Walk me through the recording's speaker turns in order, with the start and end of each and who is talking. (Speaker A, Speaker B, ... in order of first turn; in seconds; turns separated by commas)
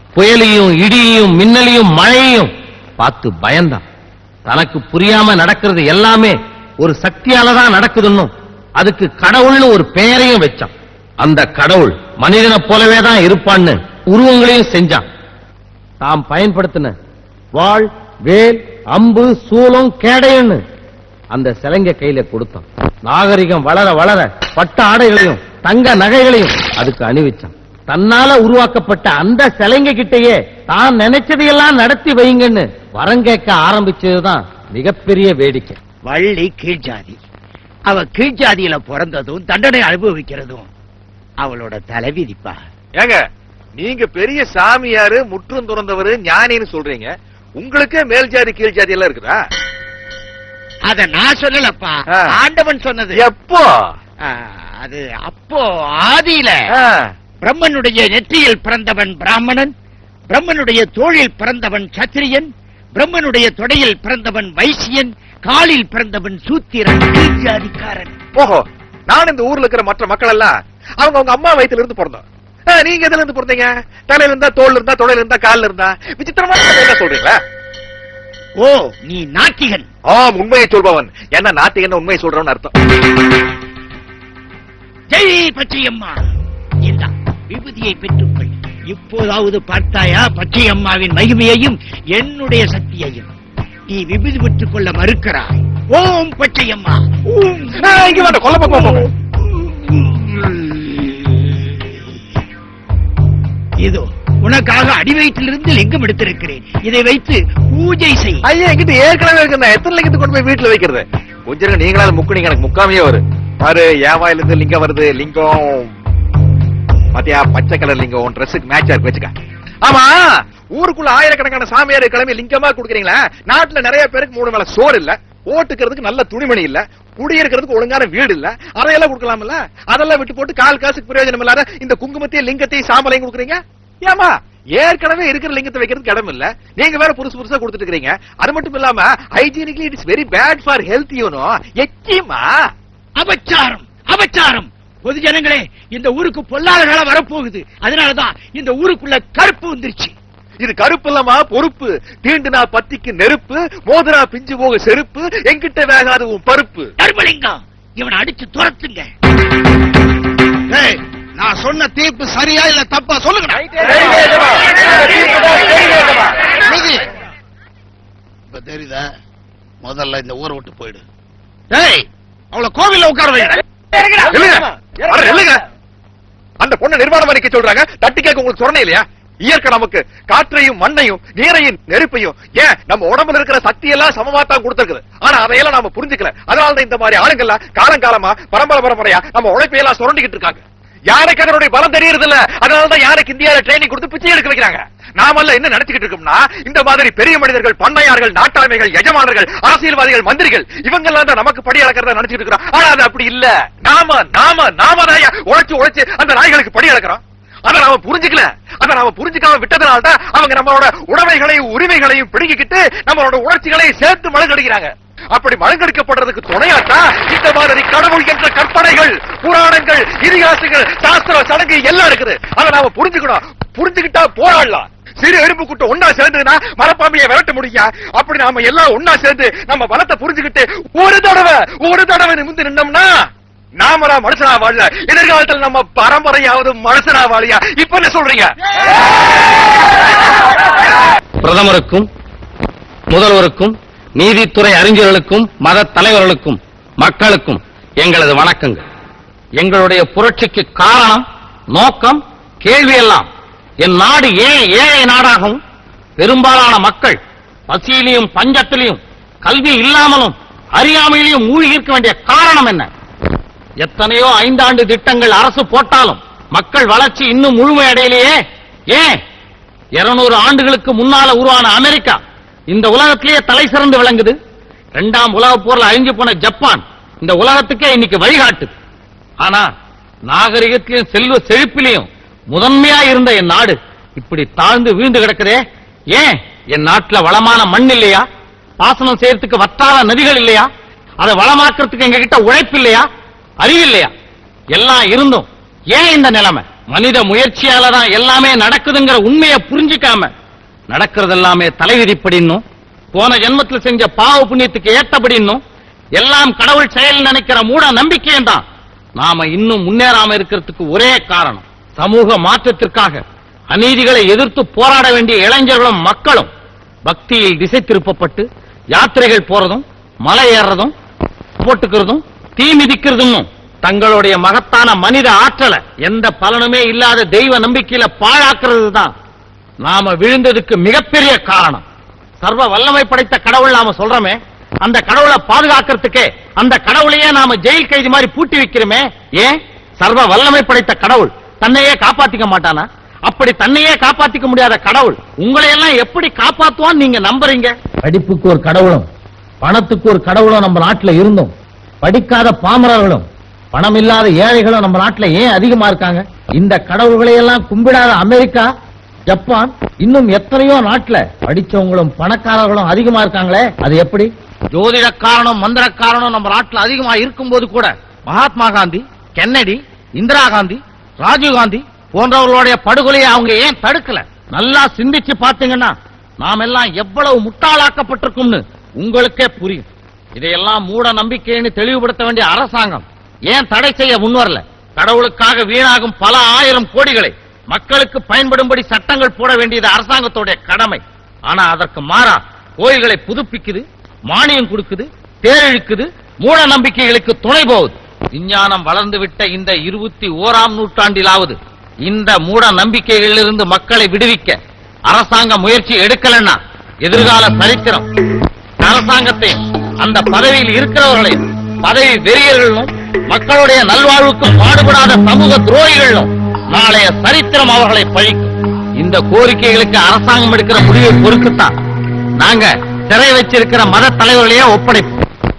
Speaker A: 0.1-3.8, Speaker A: 4.5-15.0, Speaker A: 16.0-16.9, Speaker A: 17.6-20.6, Speaker A: 21.3-35.8, Speaker B: 36.0-37.2, Speaker B: 37.9-40.7, Speaker B: 41.4-42.6, Speaker C: 43.8-49.4, Speaker B: 50.9-53.2, Speaker C: 53.1-53.7, Speaker B: 54.2-56.7, Speaker C: 56.7-57.1, Speaker B: 57.4-59.7, Speaker B: 60.3-68.2, Speaker C: 68.3-77.4, Speaker B: 78.6-79.9, Speaker C: 80.1-82.7, Speaker B: 85.1-86.2, Speaker B: 86.8-93.3, Speaker B: 93.9-99.1, Speaker C: 97.8-99.1, Speaker B: 99.6-101.9, Speaker B: 103.8-108.4, Speaker C: 108.4-115.9, Speaker C: 117.1-119.3, Speaker C: 119.8-120.2, Speaker C: 120.7-142.4, Speaker B: 143.2-150.1, Speaker C: 150.6-156.9, Speaker B: 157.0-159.1, Speaker D: 160.7-166.0, Speaker D: 166.6-167.1, Speaker D: 168.5-169.1, Speaker D: 169.8-171.0, Speaker D: 171.7-173.6, Speaker C: 174.2-175.6, Speaker C: 176.6-233.2, Speaker C: 233.8-238.5, Speaker A: 241.4-242.1, Speaker A: 243.1-248.8, Speaker A: 249.6-253.3, Speaker A: 253.8-255.6, Speaker A: 256.2-257.2, Speaker A: 257.7-262.9, Speaker A: 263.8-268.3, Speaker A: 268.9-269.2, Speaker A: 270.0-272.2, Speaker A: 272.7-274.3, Speaker A: 274.9-278.7, Speaker A: 280.3-285.6, Speaker A: 286.1-288.2, Speaker A: 288.8-290.7, Speaker A: 291.2-293.1, Speaker A: 293.6-294.1, Speaker A: 294.7-300.3, Speaker A: 300.9-302.6, Speaker A: 303.1-305.6, Speaker A: 306.2-308.6, Speaker A: 309.2-313.2, Speaker A: 313.7-316.5, Speaker A: 317.1-320.9, Speaker A: 321.6-329.1, Speaker A: 329.8-331.8, Speaker A: 332.4-349.1, Speaker A: 349.6-351.5, Speaker A: 352.0-358.7, Speaker A: 359.3-404.6, Speaker A: 405.1-408.1, Speaker A: 408.8-421.7, Speaker A: 422.4-425.1